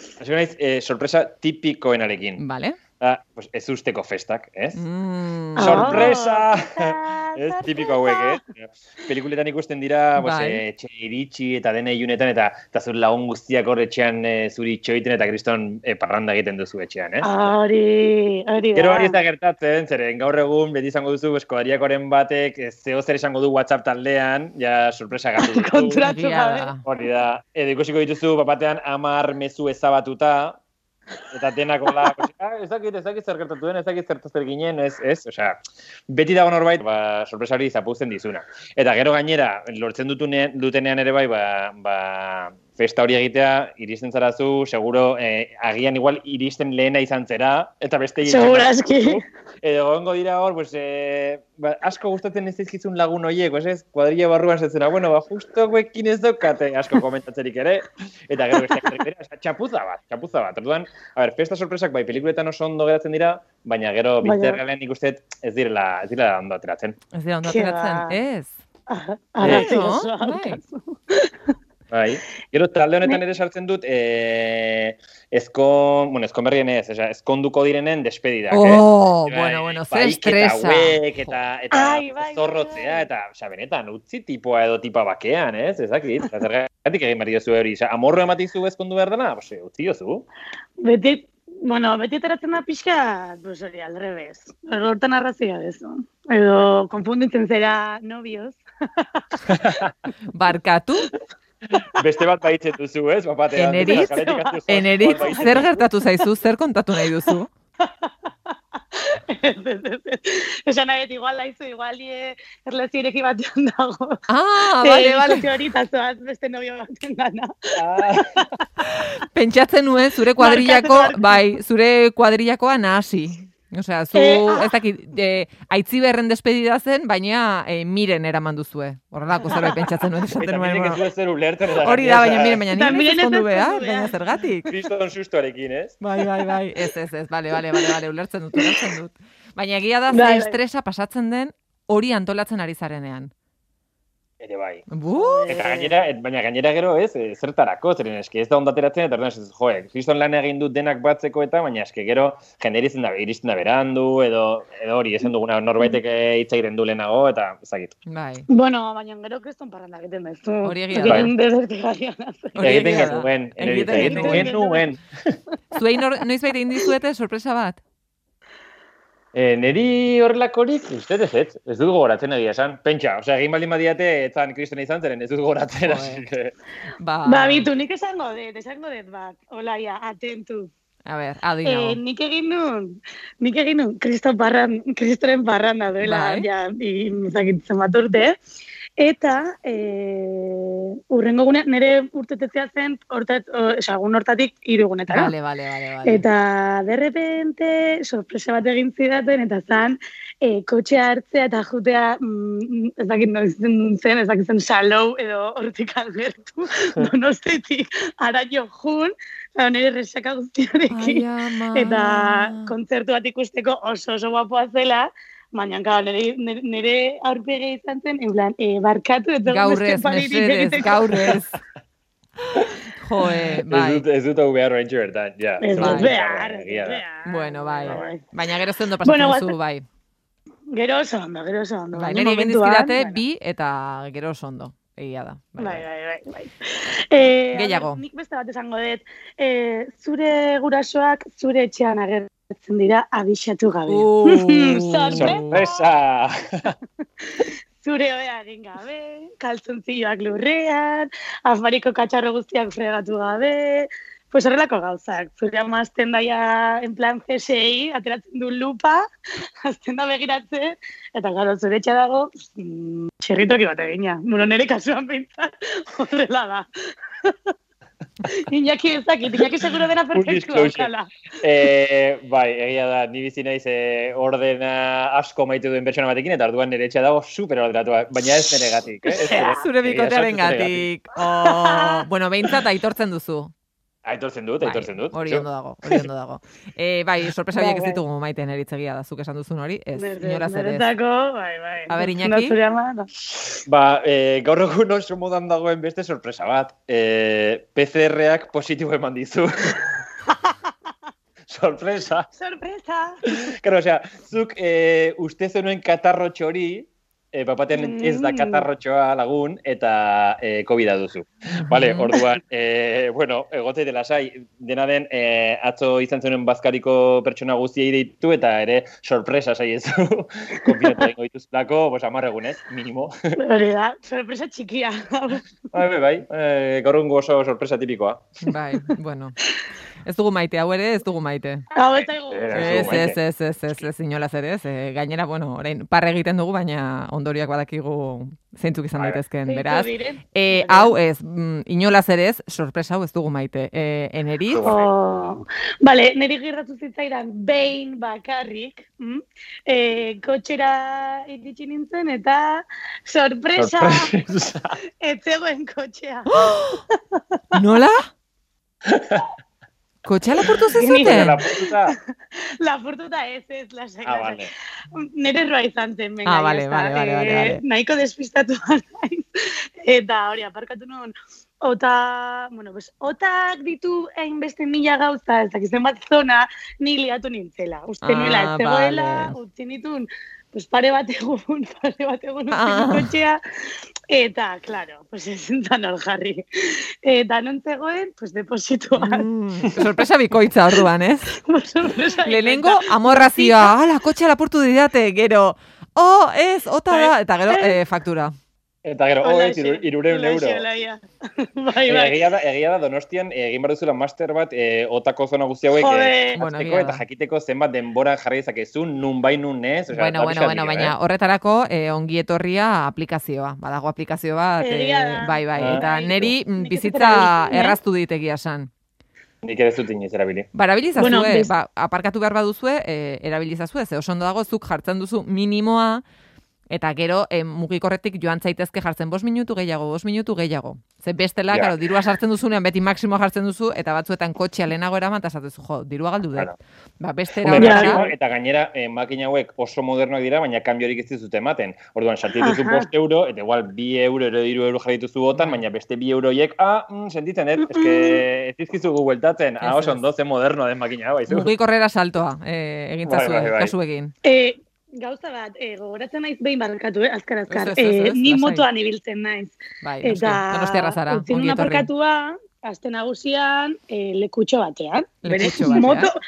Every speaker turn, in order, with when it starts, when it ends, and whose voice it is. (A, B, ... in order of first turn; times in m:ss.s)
0:00.2-0:02.4 A
0:02.4-0:02.8 B
0:03.0-0:04.8 A
0:04.8-0:06.1 B
0:05.6-0:08.4 C
0:05.6-0:17.3 A
0:10.2-0:10.6 B
0:17.2-0:19.2 C
0:18.8-0:26.0 A
0:25.4-0:26.7 C
0:26.0-0:26.8 B
0:26.8-0:30.6 A
0:31.3-0:35.6 A
0:36.1-1:07.0 A
0:48.2-0:49.2 C
0:58.6-0:58.9 C
1:04.2-1:04.6 C
1:07.1-1:08.5 B
1:07.4-1:08.2 C
1:08.9-1:11.5 C
1:09.4-1:09.7 A
1:09.4-1:10.6 B
1:11.9-1:30.3 A
1:18.5-1:21.3 B
1:21.7-1:23.1 C
1:30.8-1:39.6 C
1:39.5-1:39.9 A
1:40.3-1:41.1 B
1:42.0-1:45.7 A
1:43.6-1:44.2 B
1:43.8-1:45.9 C
1:44.7-1:47.5 B
1:47.8-1:54.2 C
1:54.3-1:55.4 B
1:54.7-1:57.5 C
1:57.8-1:58.5 A
1:58.8-2:11.0 B
2:00.4-2:01.4 C
2:04.1-2:04.7 C
2:09.5-2:09.9 C
2:10.4-2:12.6 A
2:11.8-2:14.7 B
2:12.7-2:14.2 C
2:14.7-2:16.0 A
2:16.0-2:23.3 B
2:20.1-2:20.6 C
2:24.4-2:24.9 A
2:24.9-2:25.5 B
2:25.1-2:26.0 C
2:25.5-2:37.9 A
2:38.1-2:38.5 B
2:38.5-2:43.0 C
2:40.6-2:41.3 B
2:41.0-2:41.3 A
2:42.6-2:44.5 B
2:42.6-2:45.0 A
2:43.9-2:44.8 C
2:45.7-2:47.8 B
2:49.3-2:56.5 A
2:55.8-2:56.2 B
2:57.0-2:57.7 B
2:57.3-3:00.7 C
3:01.1-3:02.0 B
3:01.6-3:08.3 C
3:06.0-3:06.5 B
3:09.0-3:15.3 C
3:15.1-3:16.2 B
3:16.0-3:41.3 C
3:30.9-3:32.7 B
3:39.5-3:41.6 B
3:42.6-3:44.0 B
3:43.7-3:47.0 A
3:45.6-3:48.2 C
3:45.8-3:46.1 B
3:47.2-3:49.8 B
3:49.0-3:49.5 C
3:50.7-3:53.2 C
3:51.9-3:55.8 B
3:55.6-4:05.8 C
3:57.5-3:58.0 B
4:03.9-4:05.6 B
4:05.2-4:06.7 A
4:07.4-4:19.0 C
4:19.6-4:26.7 C
4:27.3-4:27.5 C
4:28.4-4:31.1 C
4:30.1-4:30.9 A
4:31.4-4:40.9 A
4:39.1-4:39.6 C
4:39.5-4:43.5 B
4:41.4-4:42.0 C
4:44.0-4:45.5 A
4:44.6-4:50.9 B
4:47.5-4:48.0 C
4:50.0-4:53.1 C
4:51.9-4:52.6 B
4:53.5-4:59.9 A
5:01.5-5:02.3 A
5:02.4-5:03.2 C
5:03.6-5:23.1 A
5:07.7-5:08.7 C
5:11.6-5:12.1 B
5:23.4-5:25.4 C
5:25.7-5:28.3 A
5:28.5-5:29.4 B
5:30.1-5:31.7 B
5:31.8-5:33.1 C
5:32.0-5:33.2 A
5:32.5-5:44.8 B
5:39.5-5:40.9 C
5:44.5-5:44.9 A
5:44.6-5:54.1 C
5:53.6-5:54.8 A
5:55.0-5:57.4 C
5:56.3-5:56.8 B
5:57.5-5:58.1 B
5:58.9-5:59.2 A
6:00.0-6:01.4 B
6:00.8-6:09.3 C
6:01.0-6:02.0 A
6:04.0-6:04.5 A
6:06.2-6:07.6 B
6:09.8-6:23.4 C
6:18.0-6:19.3 B
6:22.5-6:23.1 B
6:24.1-6:26.4 C
6:27.0-6:29.3 C
6:29.0-6:31.3 B
6:31.4-6:33.7 C
6:32.3-6:38.3 B
6:36.9-6:37.8 C
6:38.8-6:40.6 A
6:39.2-6:42.2 C
6:41.9-6:51.0 A
6:45.7-6:46.4 C
6:46.4-6:47.0 B
6:49.9-6:58.7 B
6:54.6-6:57.8 C
6:55.6-6:56.3 A
6:59.4-7:00.5 A
7:00.5-7:06.0 B
7:01.0-7:01.5 C
7:06.7-7:18.0 B
7:11.5-7:11.8 A
7:17.4-7:31.5 A
7:17.6-7:18.2 C
7:22.4-7:22.9 C
7:25.3-7:25.6 B
7:27.6-7:28.2 C
7:29.6-7:30.0 B
7:31.3-7:34.1 B
7:33.1-7:33.7 A
7:34.2-7:46.1 C
7:37.5-7:38.6 B
7:39.8-7:41.9 B
7:45.2-7:46.1 B